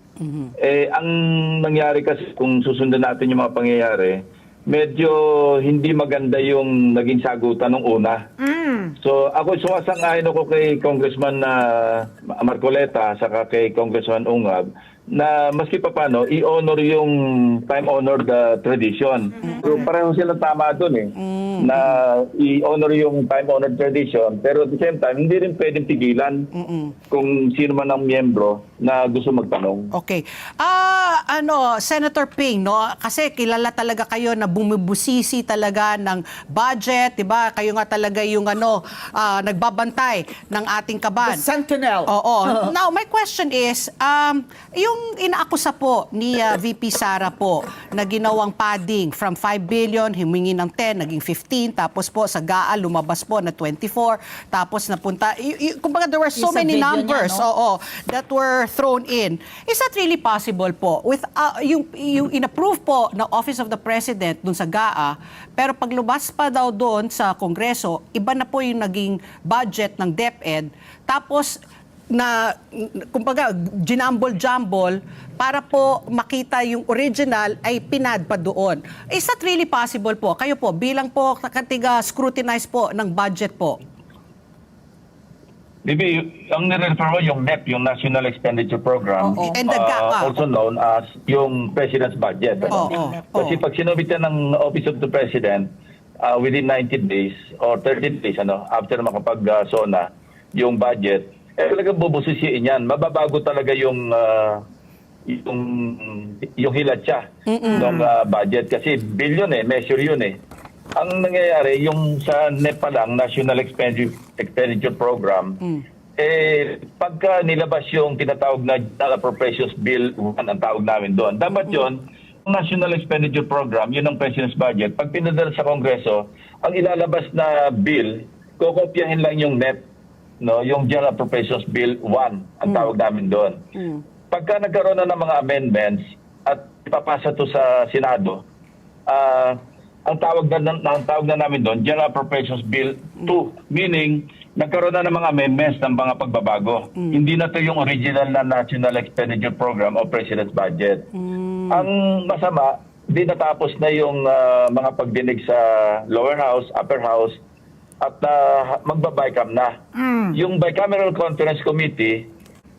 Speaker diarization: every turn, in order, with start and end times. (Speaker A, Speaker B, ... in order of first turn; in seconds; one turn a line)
Speaker A: 0.2-0.5
Speaker B: 0.6-8.2
Speaker C: 8.4-8.9
Speaker B: 9.0-26.5
Speaker A: 19.4-19.9
Speaker A: 21.2-22.0
Speaker A: 26.5-26.9
Speaker B: 27.1-29.9
Speaker A: 29.9-41.4
Speaker C: 41.2-42.7
Speaker A: 42.1-71.6
Speaker C: 56.4-57.5
Speaker A: 72.1-83.8
Speaker B: 85.8-95.7
Speaker A: 89.4-90.4
Speaker C: 92.6-93.5
Speaker A: 92.7-93.6
Speaker B: 96.2-104.6
Speaker B: 105.3-110.4
Speaker A: 107.5-108.0
Speaker C: 107.7-108.1
Speaker B: 111.0-115.6
Speaker B: 116.2-129.8
Speaker B: 130.4-133.6
Speaker A: 133.8-134.0
Speaker B: 134.3-138.4
Speaker B: 139.1-151.1
Speaker A: 151.2-151.9
Speaker B: 151.7-157.3
Speaker B: 158.0-159.8
Speaker C: 159.9-160.4
Speaker B: 160.3-162.3